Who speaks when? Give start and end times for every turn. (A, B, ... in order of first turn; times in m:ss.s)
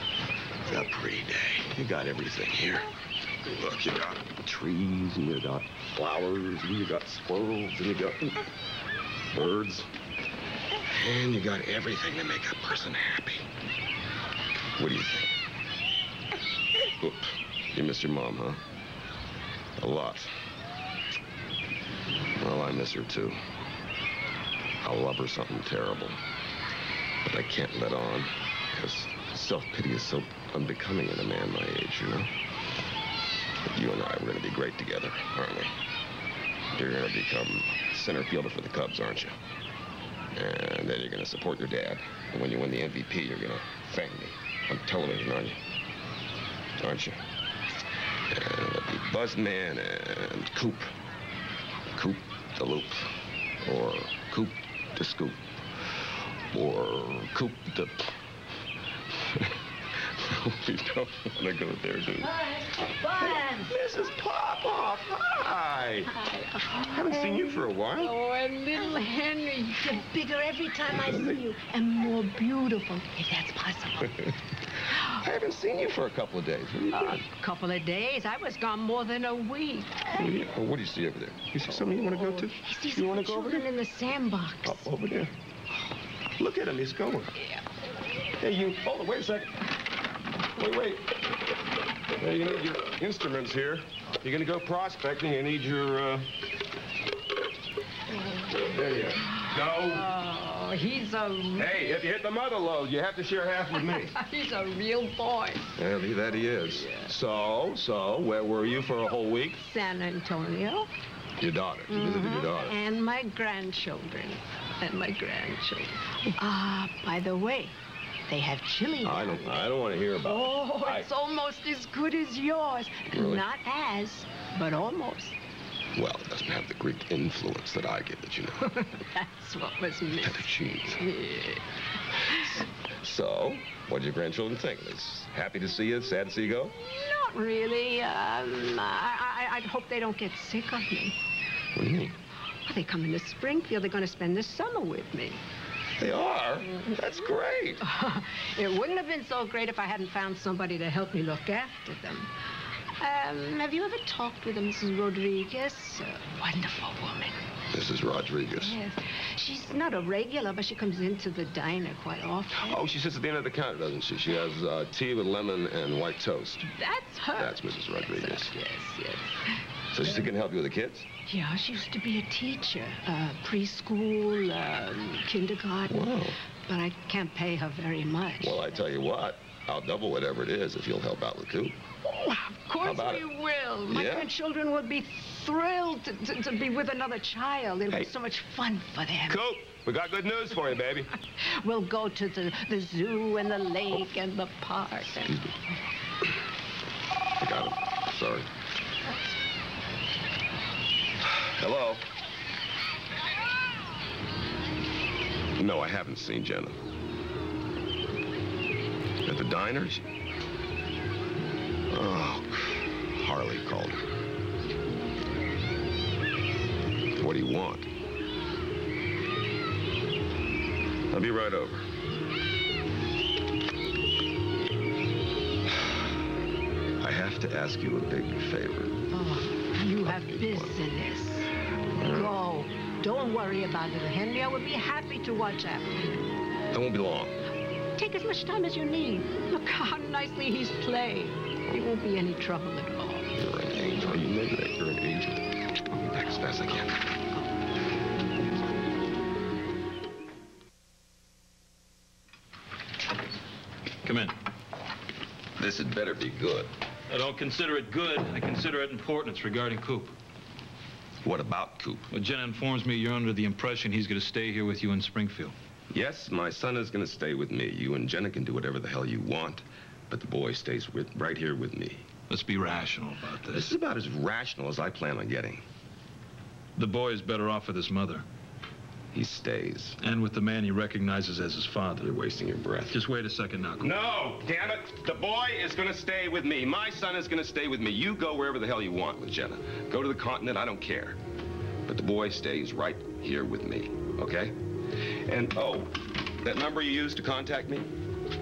0:00.6-0:02.9 A
0:03.5-0:08.5 A
0:09.3-0:09.9 A
0:10.9-0:13.5 A
0:14.8-0:15.3 A
0:17.0-0:18.6 A
0:19.8-0:20.3 A
0:22.4-0:23.4 A
0:24.8-0:26.2 A
0:27.2-0:32.3 A
0:33.7-0:35.7 A
0:36.8-0:39.4 A
0:40.4-0:45.6 A
0:46.8-0:47.2 A
0:48.3-0:50.9 A
0:51.9-0:53.1 A
0:53.6-0:55.4 A
0:56.5-0:58.1 A
1:00.1-1:02.4 A
1:02.2-1:03.8 B
1:03.2-1:06.1 A
1:06.1-1:14.2 B
1:06.9-1:08.2 A
1:10.9-1:11.4 A
1:15.2-1:17.3 A
1:17.4-1:20.1 B
1:20.2-1:23.8 A
1:22.1-1:24.9 B
1:24.6-1:25.3 A
1:26.4-1:27.3 A
1:28.4-1:29.7 A
1:30.6-1:31.1 A
1:32.2-1:36.3 A
1:38.6-1:40.0 A
1:39.6-1:41.7 B
1:41.5-1:44.1 A
1:43.8-1:45.7 B
1:45.8-1:49.6 A
1:49.6-1:50.9 B
1:51.4-1:52.8 A
1:51.9-1:57.8 B
1:58.3-1:59.7 B
1:59.0-2:01.1 A
2:00.2-2:05.4 B
2:03.1-2:03.5 A
2:06.0-2:08.7 A
2:08.8-2:11.6 B
2:10.2-2:11.0 A
2:13.0-2:16.8 A
2:17.0-2:21.2 B
2:21.8-2:22.2 A
2:22.7-2:25.4 B
2:26.0-2:27.8 A
2:27.8-2:32.3 B
2:33.0-2:37.4 B
2:37.7-2:38.8 A
2:38.6-2:42.8 B
2:42.6-2:46.7 A
2:46.8-2:49.3 B
2:47.4-2:48.6 A
2:49.9-2:51.1 A
2:51.3-2:58.8 B
2:55.8-2:56.4 A
2:58.4-3:01.8 A
3:02.0-3:09.4 B
3:02.8-3:03.3 A
3:03.9-3:04.3 A
3:07.9-3:08.1 A
3:09.3-3:11.1 A
3:11.6-3:15.4 B
3:17.4-3:18.5 A
3:21.3-3:22.0 A
3:25.6-3:26.8 A
3:29.2-3:30.1 A
3:31.9-3:34.0 A
3:37.2-3:37.9 A
3:41.1-3:41.9 A
3:47.0-3:49.1 A
3:49.1-3:51.5 B
3:49.8-3:50.8 A
3:52.0-3:52.5 A
3:52.0-3:56.2 B
3:56.7-3:57.4 A
3:58.0-4:03.3 B
4:03.4-4:07.0 A
4:14.0-4:14.3 C
4:15.6-4:16.7 A
4:17.1-4:20.1 C
4:21.2-4:22.1 A
4:22.1-4:25.5 C
4:25.9-4:32.1 A
4:32.3-4:33.7 C
4:33.5-4:35.6 A
4:36.8-4:38.2 C
4:39.1-4:40.0 A
4:40.0-4:42.1 C
4:42.0-4:43.0 A
4:42.9-4:44.0 C
4:43.8-4:51.2 A
4:51.9-4:54.6 A
4:55.2-4:57.9 A